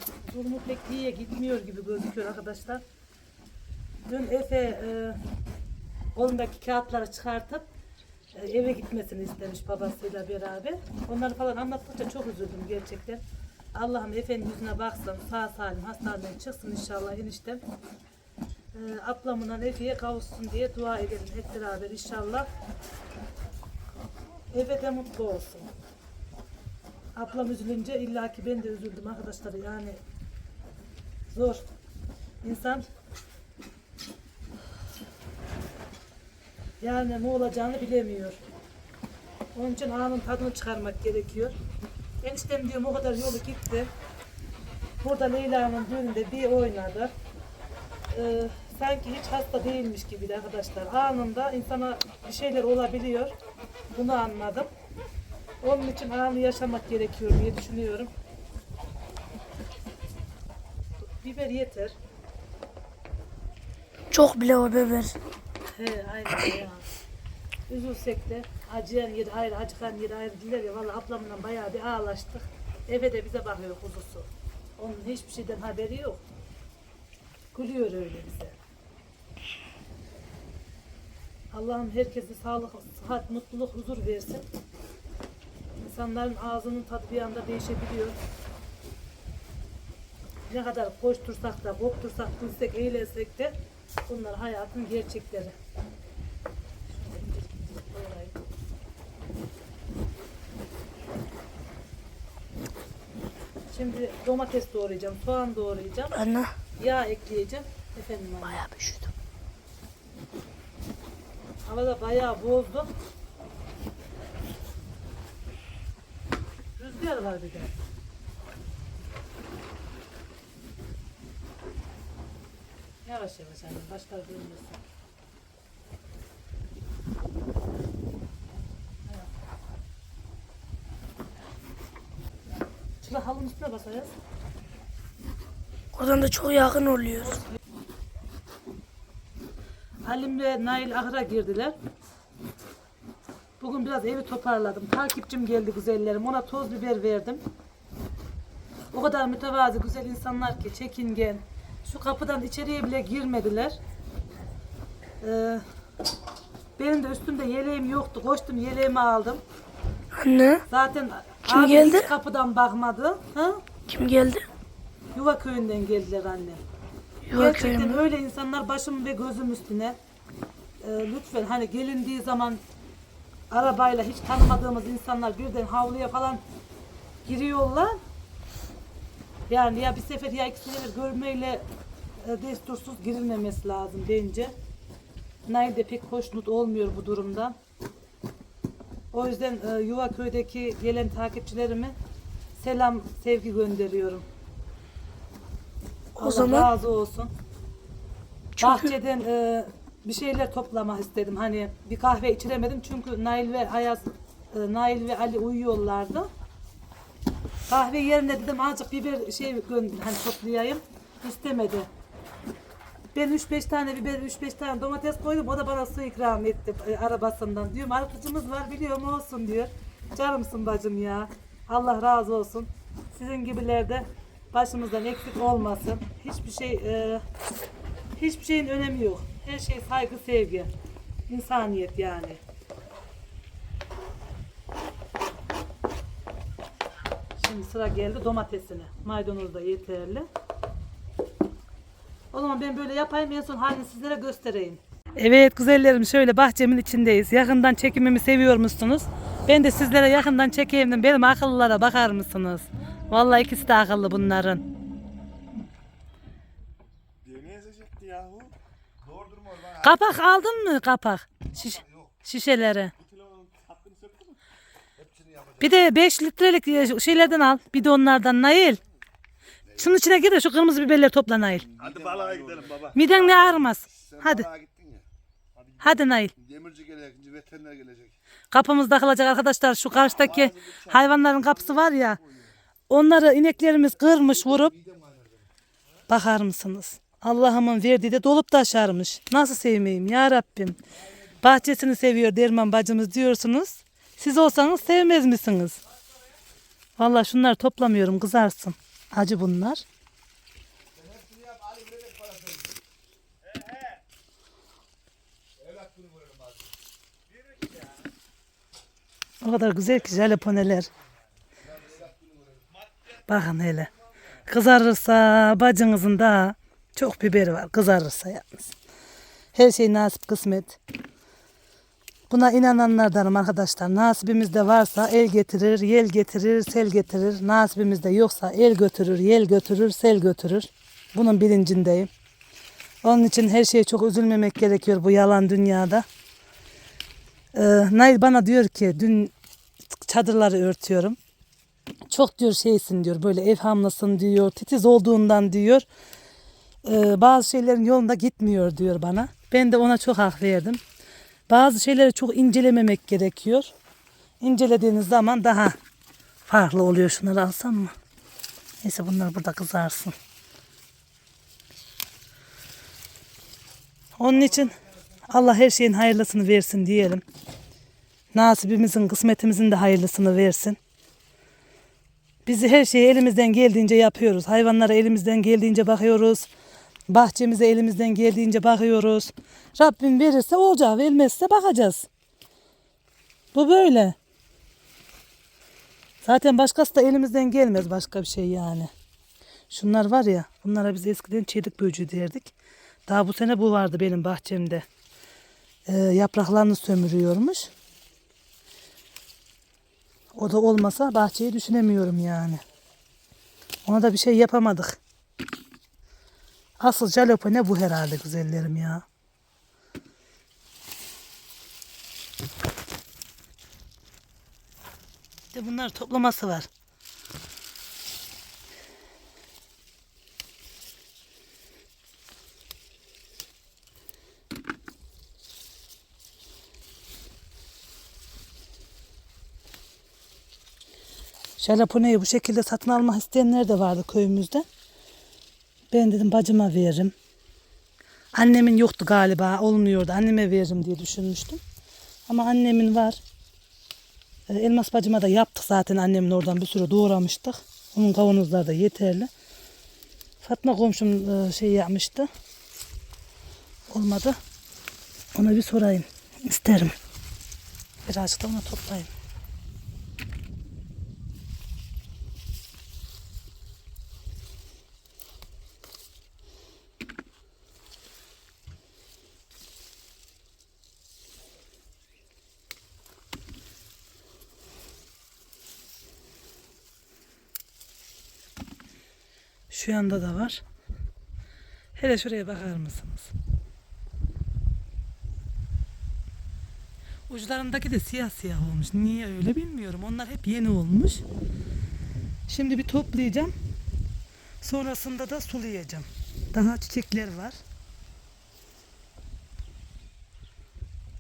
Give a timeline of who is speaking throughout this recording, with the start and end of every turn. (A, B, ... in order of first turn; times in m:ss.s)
0:00.2-0:02.8 A
0:04.0-0:05.2 A
0:06.1-0:07.6 A
0:08.3-0:13.2 A
0:13.7-0:17.6 A
0:18.7-0:22.5 A
0:24.5-0:25.7 A
0:27.2-0:30.0 A
0:31.3-0:31.6 A
0:32.4-0:32.8 A
0:36.8-0:38.4 A
0:39.5-0:41.5 A
0:42.2-0:43.9 A
0:45.0-0:47.1 A
0:48.1-0:53.3 A
0:53.9-0:54.7 A
0:55.6-0:58.1 A
1:01.2-1:01.9 A
1:04.1-1:05.1 B
1:05.7-1:06.8 A
1:07.7-1:16.2 A
1:17.5-1:18.6 A
1:21.5-1:24.4 A
1:25.8-1:28.2 A
1:30.5-1:33.6 A
1:34.1-1:35.6 A
1:36.9-1:38.4 A
1:43.7-1:46.2 A
1:46.1-1:46.5 B
1:46.8-1:48.6 A
1:48.5-1:49.1 B
1:51.6-1:52.9 A
1:56.8-1:57.7 A
2:03.0-2:04.8 A
2:13.0-2:14.1 A
2:15.9-2:17.4 B
2:20.0-2:21.8 A
2:23.6-2:27.4 A
2:28.9-2:33.8 A
2:35.2-2:35.6 A
2:36.8-2:39.4 A
2:40.1-2:40.6 B
2:40.7-2:43.6 A
2:41.4-2:42.1 B
2:43.9-2:44.4 B
2:45.1-2:46.6 A
2:47.3-2:48.0 B
2:47.3-2:50.0 A
2:50.8-2:52.6 A
2:53.5-2:56.4 A
2:57.2-2:58.0 A
2:59.5-3:01.6 A
3:02.2-3:04.5 A
3:05.5-3:07.6 A
3:09.1-3:11.9 A
3:12.6-3:14.2 A
3:16.2-3:16.7 B
3:16.2-3:17.3 A
3:18.6-3:18.9 B
3:18.6-3:26.3 A
3:27.7-3:31.9 A
3:33.1-3:47.2 A
3:48.2-3:50.7 A
3:51.3-3:52.4 A
3:57.4-4:00.3 A
4:02.3-4:14.6 A
4:17.2-4:18.5 C
4:19.0-4:20.0 D
4:19.8-4:22.9 A
4:21.6-4:22.1 D
4:23.0-4:24.4 C
4:25.0-4:25.9 D
4:25.6-4:28.8 A
4:29.8-4:31.7 A
4:31.6-4:35.0 D
4:31.8-4:33.0 C
4:32.9-4:34.5 A
4:35.5-4:36.0 C
4:35.8-4:36.3 A
4:36.4-4:38.1 D
4:38.5-4:42.2 A
4:40.2-4:40.9 D
4:40.3-4:41.7 C
4:42.9-4:44.7 A
4:44.1-4:45.5 D
4:46.1-4:50.8 A
4:51.4-4:55.8 A
4:57.0-4:59.8 A
5:00.9-5:02.7 D
5:05.6-5:06.7 D
5:09.4-5:10.9 A
5:11.6-5:12.6 D
5:13.3-5:13.9 A
5:14.4-5:18.7 A
5:19.5-5:20.8 A
5:22.3-5:32.1 A
5:33.0-5:36.0 A
5:37.5-5:39.3 A
5:40.0-5:41.2 A
5:42.1-5:45.8 A
5:46.8-5:50.8 A
5:51.5-5:53.7 A
5:54.4-5:55.8 A
5:56.5-5:57.9 A
5:58.8-6:00.2 A
6:04.2-6:07.2 A
6:08.3-6:10.8 A
6:12.4-6:16.5 A
6:17.1-6:22.0 A
6:23.5-6:24.2 A
6:26.2-6:28.9 A
6:29.7-6:32.5 A
6:33.1-6:34.8 A
6:35.8-6:37.7 A
6:40.3-6:42.6 A
6:43.8-6:45.0 A
6:46.8-6:49.0 A
6:55.5-6:56.7 A
7:11.6-7:14.6 A
7:15.9-7:17.1 A
7:18.3-7:21.6 A
7:22.3-7:23.2 A
7:24.5-7:29.3 A
7:30.4-7:32.3 A
7:33.9-7:34.4 A
7:35.4-7:36.9 A
7:38.0-7:39.1 A
7:59.7-8:00.6 A
8:02.0-8:03.3 A
8:07.3-8:11.2 A
8:12.5-8:13.5 A
8:14.6-8:17.6 A